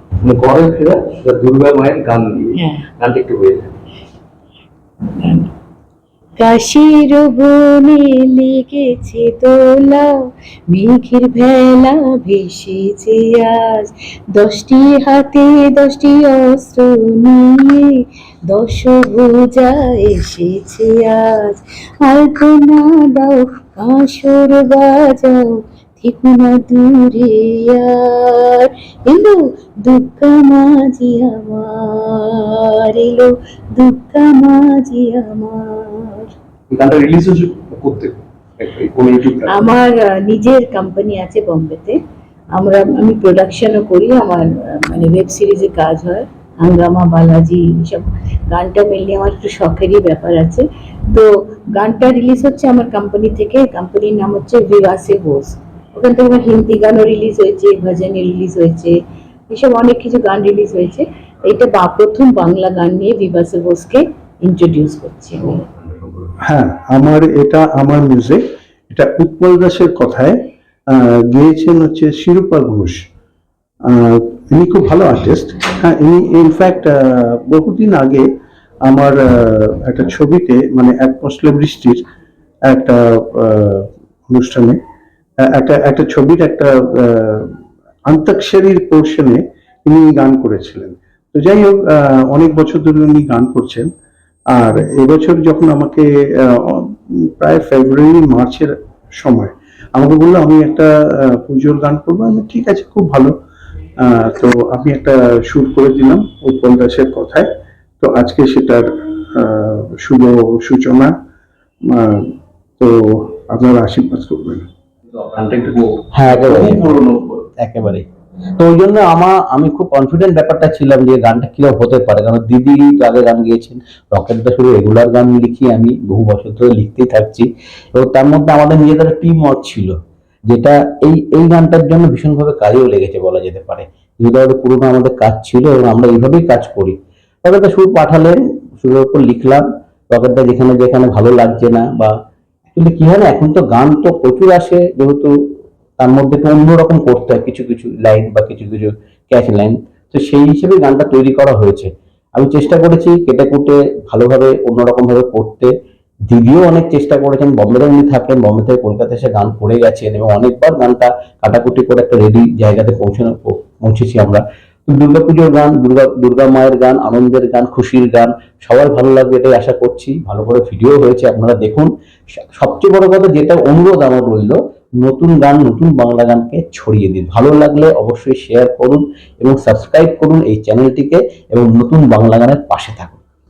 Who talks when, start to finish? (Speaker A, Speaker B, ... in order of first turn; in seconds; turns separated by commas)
Speaker A: 0.3-2.5, Speaker B: 2.6-2.9, Speaker A: 3.1-3.7, Speaker B: 5.2-5.5, Speaker B: 6.4-10.2, Speaker B: 10.7-36.3, Speaker A: 36.7-39.5, Speaker B: 39.5-42.0, Speaker B: 42.5-59.0, Speaker B: 59.5-65.6, Speaker C: 66.4-70.3, Speaker C: 71.0-73.0, Speaker C: 73.9-78.2, Speaker C: 78.9-82.0, Speaker C: 82.7-84.8, Speaker C: 85.6-87.5, Speaker C: 88.1-93.9, Speaker C: 94.6-96.1, Speaker C: 97.4-103.3, Speaker C: 104.1-107.5, Speaker C: 108.0-108.9, Speaker C: 109.4-111.1, Speaker C: 111.9-112.2, Speaker C: 112.8-114.7, Speaker D: 116.2-117.0, Speaker D: 117.6-118.0, Speaker D: 118.6-129.9, Speaker D: 130.5-142.1, Speaker D: 142.7-145.3, Speaker D: 146.0-155.7, Speaker D: 156.3-183.2